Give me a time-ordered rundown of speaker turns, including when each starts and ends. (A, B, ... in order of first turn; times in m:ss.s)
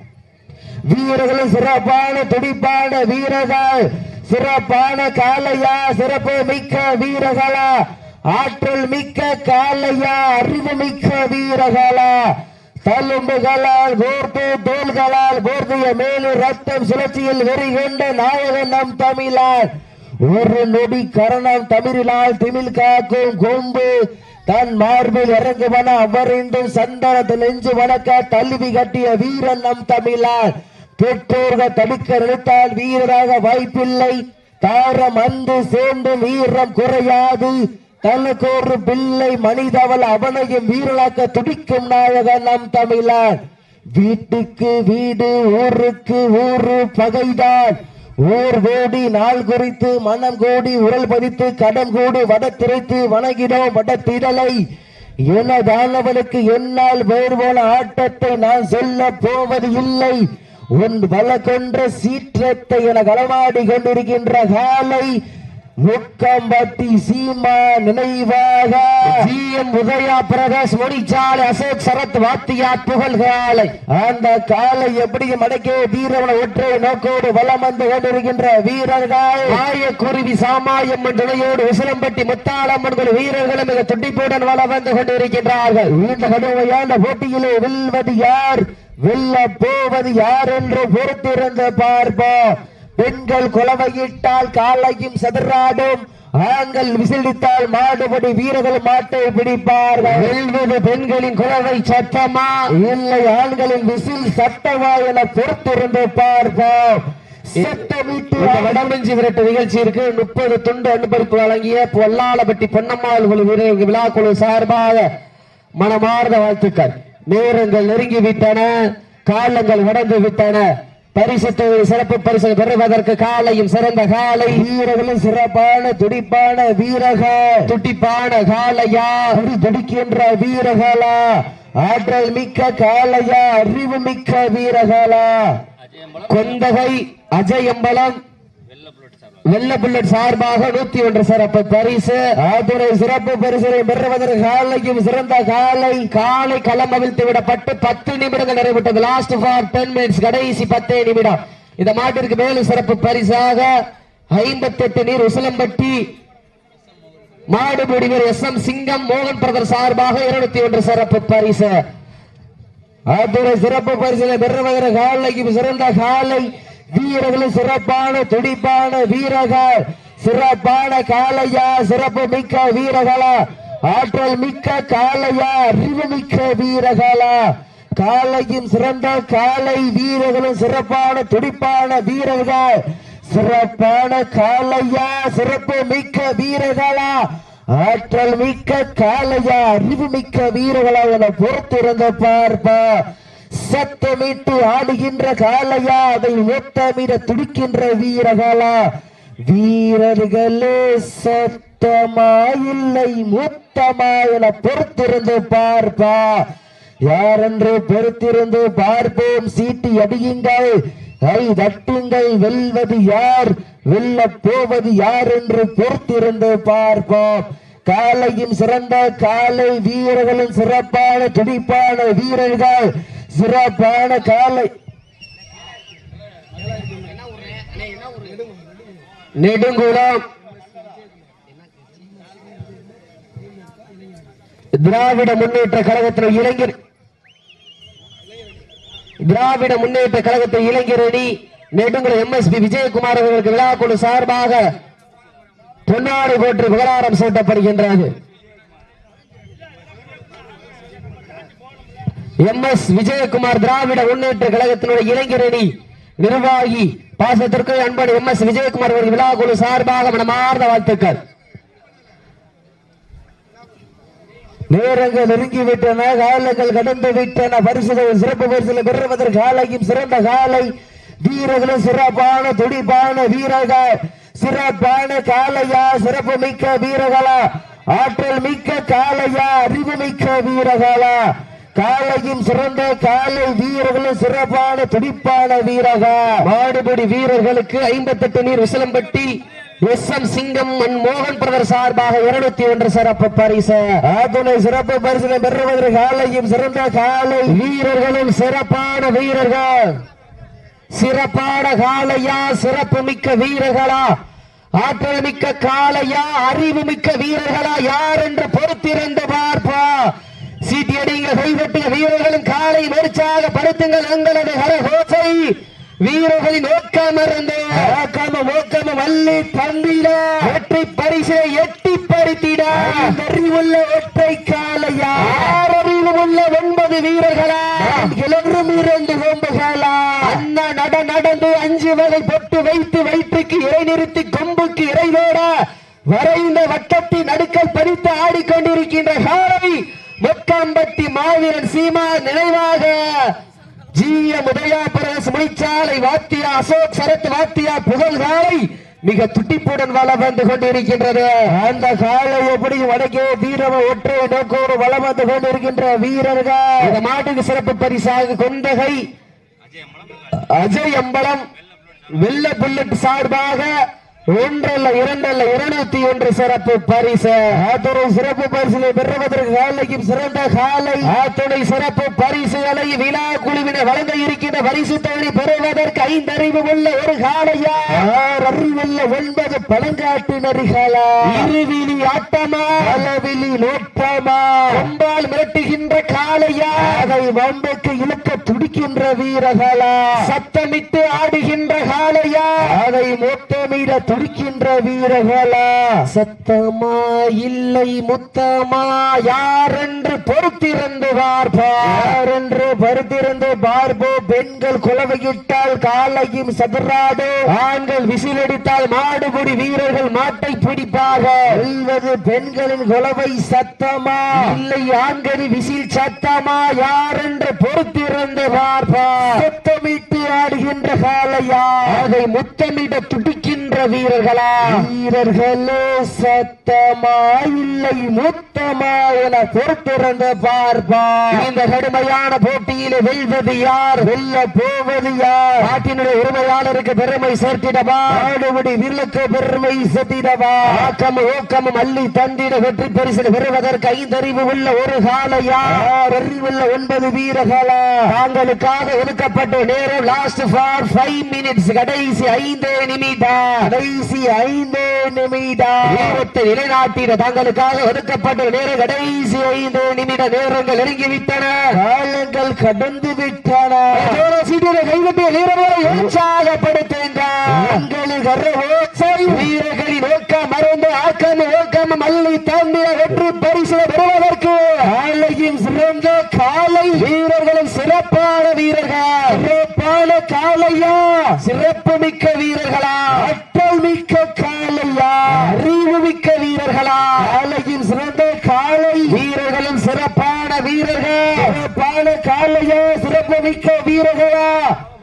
0:00.9-0:07.8 A
0:08.3-0:12.3 A
0:12.8-0:19.7 A
0:20.2-0:43.4 A
0:44.0-0:54.6 A
0:55.3-1:05.2 A
1:05.8-1:09.3 A
1:09.1-1:13.7 B
1:13.9-1:19.6 A
1:19.5-1:25.9 B
1:25.9-1:40.3 A
1:40.0-1:42.6 B
1:42.8-1:48.8 A
1:47.6-1:47.8 B
1:48.4-1:55.1 B
1:55.8-1:58.7 B
1:59.3-2:04.7 B
2:04.5-2:07.7 A
2:07.7-2:09.4 B
2:09.3-2:15.6 A
2:16.3-2:18.2 B
2:19.5-2:22.2 B
2:22.4-2:26.1 A
2:26.1-2:33.7 B
2:34.3-2:36.0 B
2:37.5-2:41.8 B
2:43.1-3:18.9 A
3:19.5-3:26.4 A
3:27.1-3:44.7 A
3:49.4-3:50.2 B
3:54.8-3:56.8 B
3:59.2-4:04.7 B
4:05.9-4:08.1 B
4:12.4-4:21.2 B
4:24.7-4:41.2 A
4:41.8-4:46.3 A
4:46.4-4:54.0 B
4:54.0-4:57.6 A
4:57.5-4:59.9 B
5:00.9-5:04.2 B
5:04.8-5:10.1 B
5:10.6-5:17.9 B
5:17.7-5:20.5 A
5:20.4-5:23.1 B
5:22.8-5:25.6 A
5:25.2-5:28.1 B
5:27.8-5:30.4 A
5:30.2-5:35.5 B
5:36.1-5:43.3 B
5:43.9-5:51.5 B
5:51.5-5:56.9 A
5:56.8-5:59.0 B
6:00.4-6:01.4 B
6:02.2-6:03.7 B
6:04.3-6:07.6 B
6:07.5-6:11.1 A
6:11.0-6:18.1 B
6:17.9-6:21.5 A
6:21.3-6:23.0 B
6:22.8-6:24.9 A
6:24.7-6:27.1 B
6:26.8-6:30.2 A
6:30.2-6:32.8 B
6:32.6-6:36.1 A
6:36.1-6:42.2 B
6:41.8-6:47.4 A
6:47.5-6:51.6 B
6:51.5-6:54.6 A
6:54.4-6:59.4 B
6:59.3-7:02.0 A
7:01.9-7:04.9 B
7:04.7-7:11.5 A
7:11.3-7:14.1 B
7:14.0-7:15.7 A
7:15.6-7:18.3 B
7:18.1-7:20.9 A
7:20.7-7:25.9 B
7:25.7-7:28.0 A
7:28.1-7:33.7 B
7:33.6-7:36.2 A
7:35.8-7:41.8 B
7:41.7-7:44.2 A
7:43.9-7:47.8 B
7:45.9-7:46.1 A
7:47.5-7:49.5 A
7:49.3-7:54.9 B
7:54.8-7:57.1 A
7:57.0-7:59.4 B
7:59.3-8:01.4 A
8:01.4-8:03.3 B
8:03.2-8:05.6 A
8:05.3-8:07.3 B
8:07.2-8:09.2 A
8:09.1-8:11.6 B
8:11.4-8:14.7 A